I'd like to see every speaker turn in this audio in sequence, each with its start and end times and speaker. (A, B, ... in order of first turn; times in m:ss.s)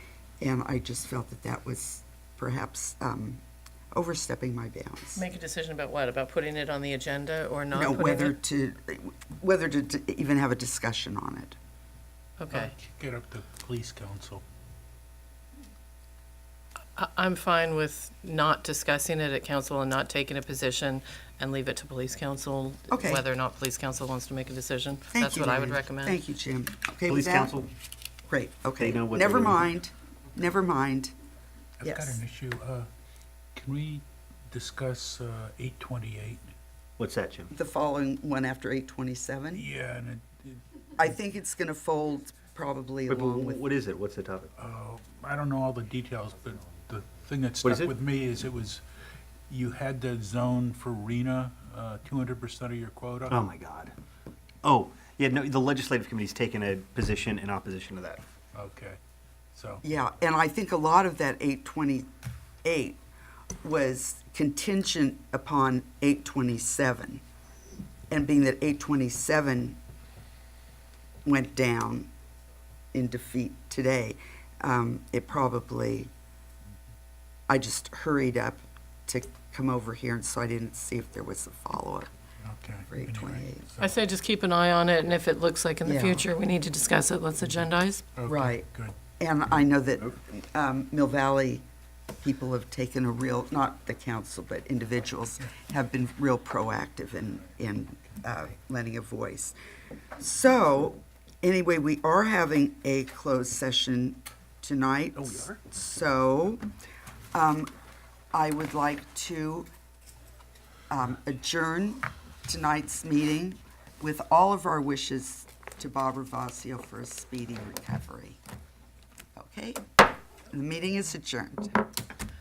0:00.4-0:05.2 A
0:05.2-0:08.4 B
0:07.7-0:11.6 A
0:12.4-0:12.7 B
0:12.5-0:14.4 C
0:17.0-0:26.2 B
0:22.9-0:23.2 A
0:25.1-0:27.5 A
0:27.1-0:27.7 D
0:28.3-0:31.1 A
0:28.8-0:29.6 D
0:31.8-0:32.9 C
0:31.8-0:32.2 A
0:33.5-0:36.5 C
0:37.0-0:37.5 D
0:37.5-0:39.6 A
0:39.5-0:40.6 C
0:41.0-0:43.6 A
0:43.1-0:44.5 D
0:44.6-0:48.8 C
0:47.6-0:47.9 D
0:49.5-0:53.3 C
0:53.3-0:53.9 D
0:54.6-0:58.2 D
0:58.5-0:59.0 C
0:59.5-0:59.8 C
0:59.8-1:02.1 A
1:02.6-1:03.0 A
1:03.6-1:07.2 A
1:08.1-1:09.8 A
1:11.2-1:12.1 A
1:12.9-1:16.1 A
1:17.5-1:22.1 A
1:22.4-1:23.9 C
1:22.9-1:23.7 A
1:23.8-1:28.0 B
1:25.8-1:26.2 A
1:28.1-1:28.9 C
1:28.2-1:31.6 A
1:32.2-1:39.5 A
1:40.2-1:46.6 A
1:47.3-1:47.7 A
1:48.3-1:49.7 A
1:50.9-1:58.4 A
1:59.3-1:59.8 A
2:00.5-2:01.8 A